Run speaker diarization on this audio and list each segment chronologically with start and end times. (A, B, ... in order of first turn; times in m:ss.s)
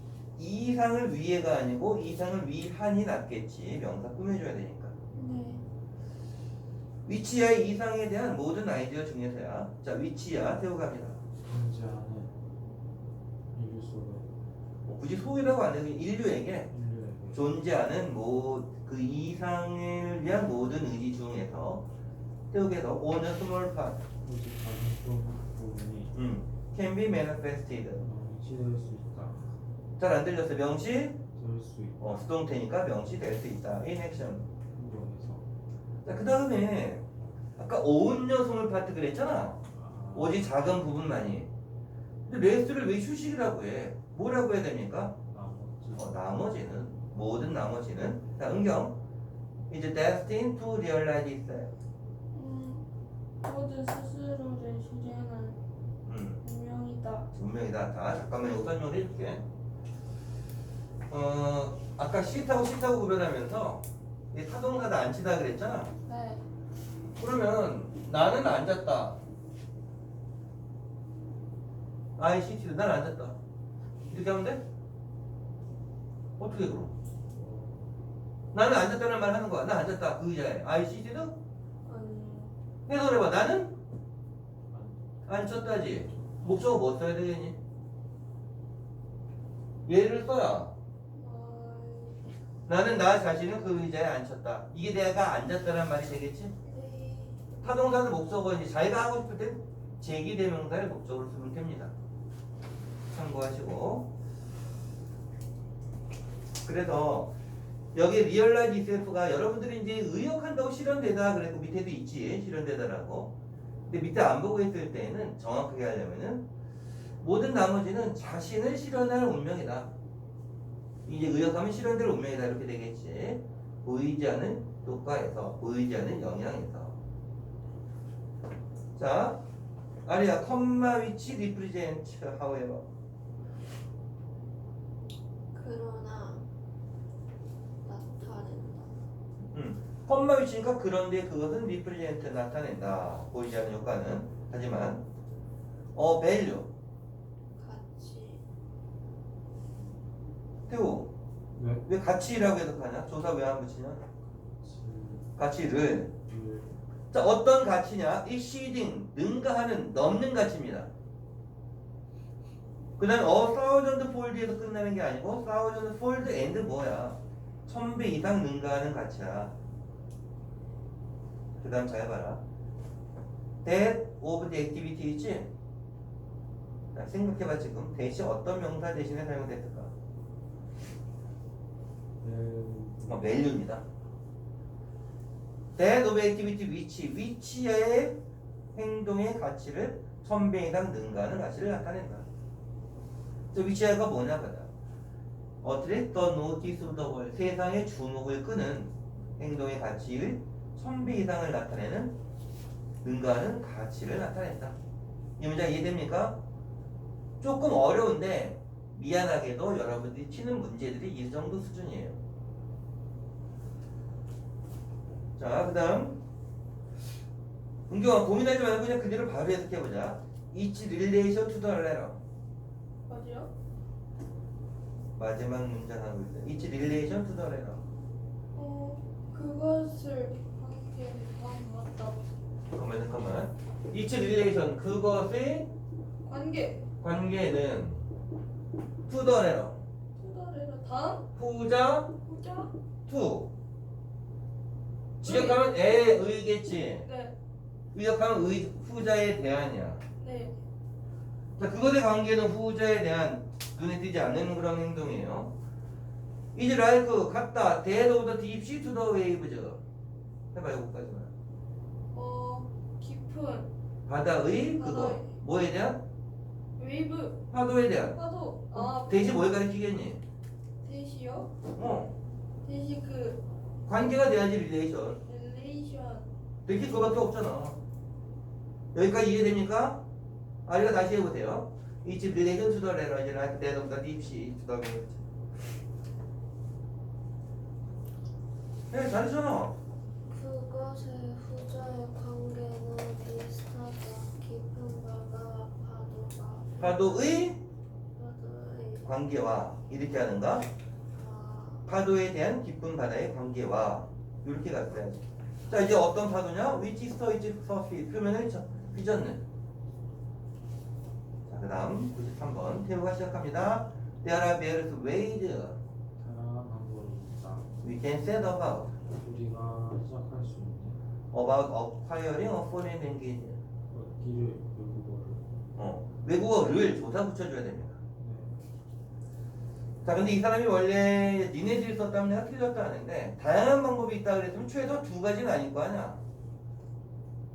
0:00.4-0:04.9 A
0:05.1-0:05.6 B
0:07.0-0:11.2 A
0:11.4-0:12.3 C
0:13.5-0:14.3 C
0:14.9-0:16.7 A
0:16.7-0:17.5 C
0:17.3-0:21.9 A
0:22.5-0:24.0 A
0:24.2-0:26.2 C
0:26.1-0:28.1 A
0:28.0-0:29.5 C
0:30.0-0:31.2 A
0:31.3-0:32.3 C
0:32.0-0:34.5 A
0:34.7-0:35.4 C
0:36.0-0:37.0 A
0:37.6-0:39.6 A
0:39.7-0:40.5 C
0:40.1-0:41.5 A
0:42.2-0:45.2 A
0:45.3-0:46.2 C
0:45.9-0:48.9 A
0:49.7-0:51.7 A
0:52.3-0:52.8 B
0:53.4-0:55.6 B
0:56.0-0:56.4 A
0:56.4-0:57.3 B
0:57.3-0:59.4 A
1:01.1-1:05.9 A
1:06.0-1:06.4 B
1:07.2-1:09.2 A
1:12.2-1:13.4 A
1:14.1-1:14.6 A
1:16.4-1:16.9 A
1:17.3-1:17.9 C
1:18.5-1:21.4 A
1:21.8-1:22.5 B
1:22.9-1:23.8 A
1:24.7-1:26.6 C
1:25.2-1:27.6 A
1:29.9-1:30.7 A
1:31.1-1:32.2 B
1:32.7-1:36.5 A
1:36.6-1:37.4 B
1:37.6-1:41.9 A
1:43.1-1:44.1 A
1:46.6-1:47.3 A
1:47.9-1:53.3 A
1:53.9-1:56.4 A
1:57.2-1:59.9 A
2:01.0-2:07.0 A
2:09.0-2:09.4 A
2:10.0-2:12.9 A
2:15.5-2:16.4 D
2:17.8-2:18.9 D
2:19.5-2:25.0 A
2:25.9-2:26.7 A
2:27.6-2:28.4 D
2:30.7-2:31.1 A
2:31.5-2:31.8 C
2:31.8-2:34.0 A
2:34.2-2:35.3 C
2:35.4-2:36.1 A
2:36.2-2:36.8 C
2:37.1-2:40.9 A
2:43.0-2:49.5 A
2:51.6-2:52.4 A
2:53.6-2:55.5 A
2:56.9-2:59.9 A
3:02.2-3:03.6 C
3:03.1-3:03.8 A
3:05.8-3:08.2 A
3:08.7-3:12.2 A
3:13.5-3:14.7 A
3:15.6-3:22.1 A
3:23.0-3:24.8 A
3:25.4-3:26.4 A
3:27.4-3:32.2 A
3:35.4-3:36.2 A
3:37.9-3:42.2 A
3:43.1-3:43.5 B
3:45.2-3:47.8 A
3:48.6-3:52.2 B
3:52.7-3:55.7 A
3:56.2-3:56.9 B
3:57.0-3:58.0 A
3:59.1-3:59.8 A
4:00.2-4:01.3 B
4:01.4-4:02.1 A
4:02.2-4:02.7 B
4:03.1-4:03.5 A
4:05.2-4:07.1 A
4:05.2-4:05.6 B
4:07.0-4:07.3 B
4:07.9-4:10.0 A
4:10.2-4:10.6 B
4:11.6-4:15.5 A
4:16.6-4:19.8 A
4:20.5-4:21.3 A
4:22.1-4:23.7 B
4:24.1-4:26.0 A
4:24.7-4:25.3 B
4:26.8-4:27.4 B
4:27.5-4:28.2 A
4:28.1-4:29.4 B
4:28.7-4:30.2 A
4:30.8-4:31.5 B
4:31.8-4:32.1 A
4:32.6-4:33.4 B
4:33.9-4:35.2 A
4:35.2-4:36.2 B
4:36.6-4:37.8 A
4:38.9-4:40.0 A
4:40.6-4:45.2 A
4:48.9-4:49.7 A
4:50.3-4:57.4 D
4:56.8-4:57.6 A
4:58.1-4:59.1 D
4:59.0-5:00.6 A
5:01.1-5:01.9 D
5:01.9-5:09.4 A
5:11.5-5:15.8 A
5:16.2-5:17.7 C
5:17.8-5:18.9 A
5:19.1-5:21.0 C
5:21.3-5:23.6 A
5:23.9-5:25.5 C
5:25.8-5:28.0 A
5:28.2-5:28.6 C
5:30.0-5:36.2 A